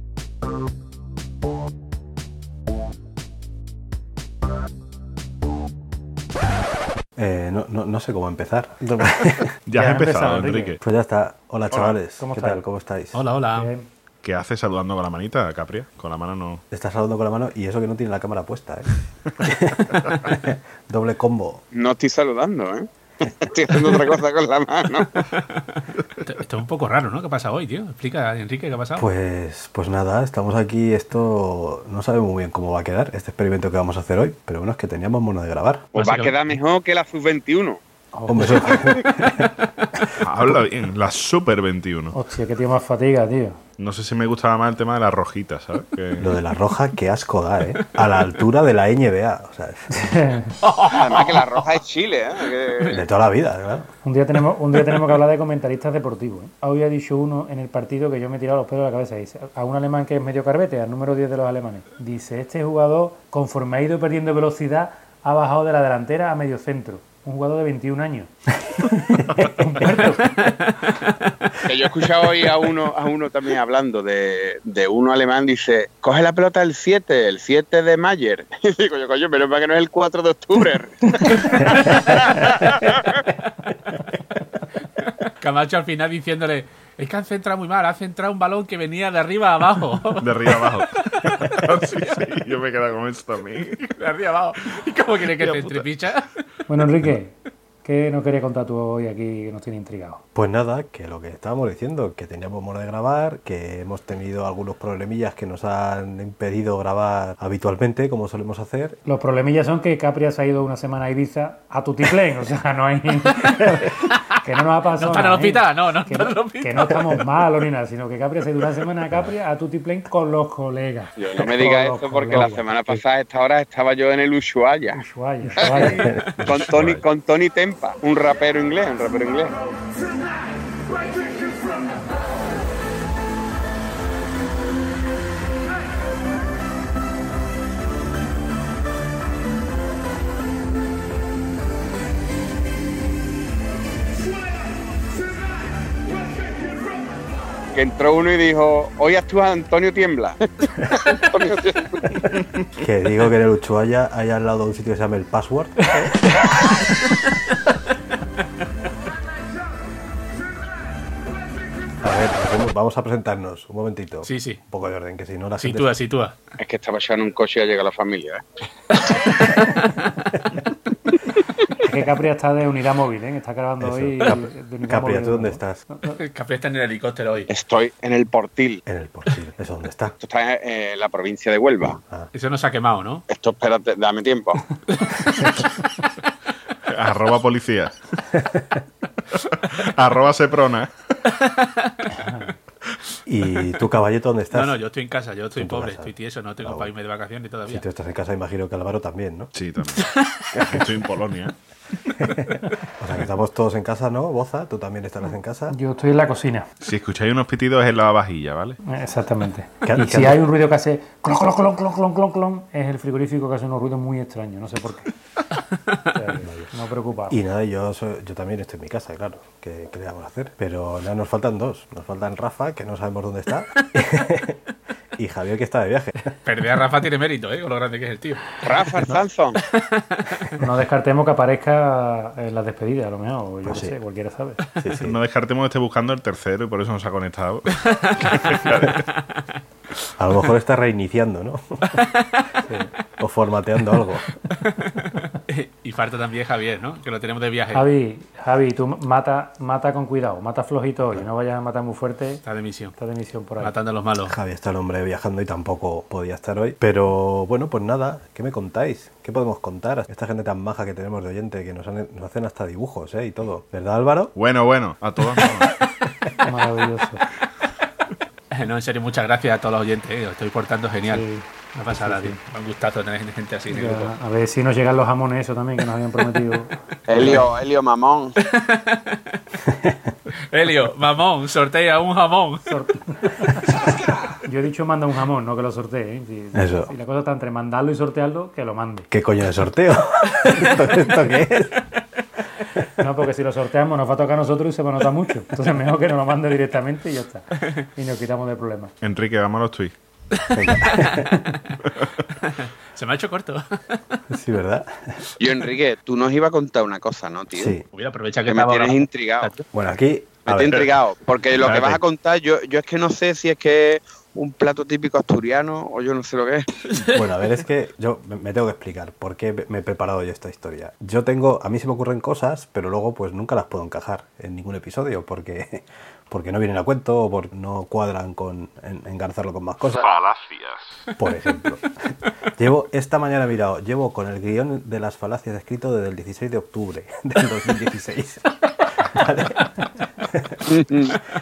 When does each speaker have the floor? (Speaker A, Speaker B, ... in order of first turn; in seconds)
Speaker A: 7.2-9.5, 10.8-13.2, 16.7-21.6, 29.0-35.8, 38.3-39.5, 46.2-49.9, 52.9-53.9, 100.3-109.0, 125.8-126.8, 152.7-156.4, 162.0-165.9, 173.8-175.8, 178.8-180.2, 188.3-188.8, 193.2-194.8, 195.5-196.9, 197.7-199.5, 200.5-200.9, 202.2-205.8, 209.8-210.4, 216.4-216.7, 217.3-224.6, 225.2-226.3, 233.6-233.9, 234.8-235.2, 240.2-242.0, 243.2-244.3, 254.2-264.3, 286.5-286.9, 289.1-291.9, 300.5-301.4, 304.3-305.2, 307.5-307.8, 309.7-310.8, 317.0-330.1, 331.2-331.9, 332.6-340.7
Speaker B: 9.7-10.8, 11.7-12.0, 14.2-16.6, 40.2-42.1, 43.8-46.3, 90.2-94.0, 95.2-95.9, 126.7-127.0, 186.9-188.0, 189.3-190.9, 199.5-200.1, 200.7-201.5, 206.8-208.8, 235.0-239.0, 264.3-265.8, 299.0-299.9, 311.6-312.0, 330.0-331.1
Speaker C: 9.7-10.8, 12.2-12.7, 13.5-13.9, 38.1-38.7, 42.1-43.6, 50.0-50.5, 54.0-70.3, 96.7-100.2, 109.0-123.0, 124.9-126.1, 171.7-176.2, 192.2-192.5, 205.7-206.7, 208.8-215.1, 216.1-217.4, 230.6-234.6, 242.6-242.9, 247.7-252.4, 252.9-253.7, 266.4-267.2, 271.0-271.5, 272.0-272.3, 273.7-277.5, 282.6-283.8, 284.4-289.1, 293.0-298.9
Speaker D: 13.1-13.7, 25.3-25.6, 26.2-29.1, 35.9-36.4, 50.6-51.7, 52.4-53.0, 54.7-55.1, 69.8-71.5, 82.0-82.5, 85.2-91.6, 94.0-96.3, 113.6-114.2, 114.9-117.0, 125.7-126.1, 156.4-157.1, 164.2-164.6, 165.6-166.3, 169.0-170.2, 176.1-177.5, 182.3-183.2, 184.9-186.1, 191.4-192.3, 194.5-197.8, 200.0-200.6, 226.4-228.6, 229.7-230.5, 237.8-239.0, 241.9-242.4, 244.5-247.9, 252.4-252.9, 253.6-254.3, 268.5-271.2, 271.7-274.1, 278.5-279.6, 280.5-282.6, 300.4-301.5, 302.4-304.2, 307.9-309.6
Speaker E: 21.7-25.1, 35.9-37.8, 50.9-53.0, 71.6-83.2, 121.2-125.0, 125.6-129.5, 147.7-152.4, 166.6-168.4, 177.5-178.8, 180.2-182.0, 183.3-184.6, 228.6-229.6, 277.1-278.3, 305.4-307.8, 308.4-309.5, 310.4-316.7, 340.6-341.2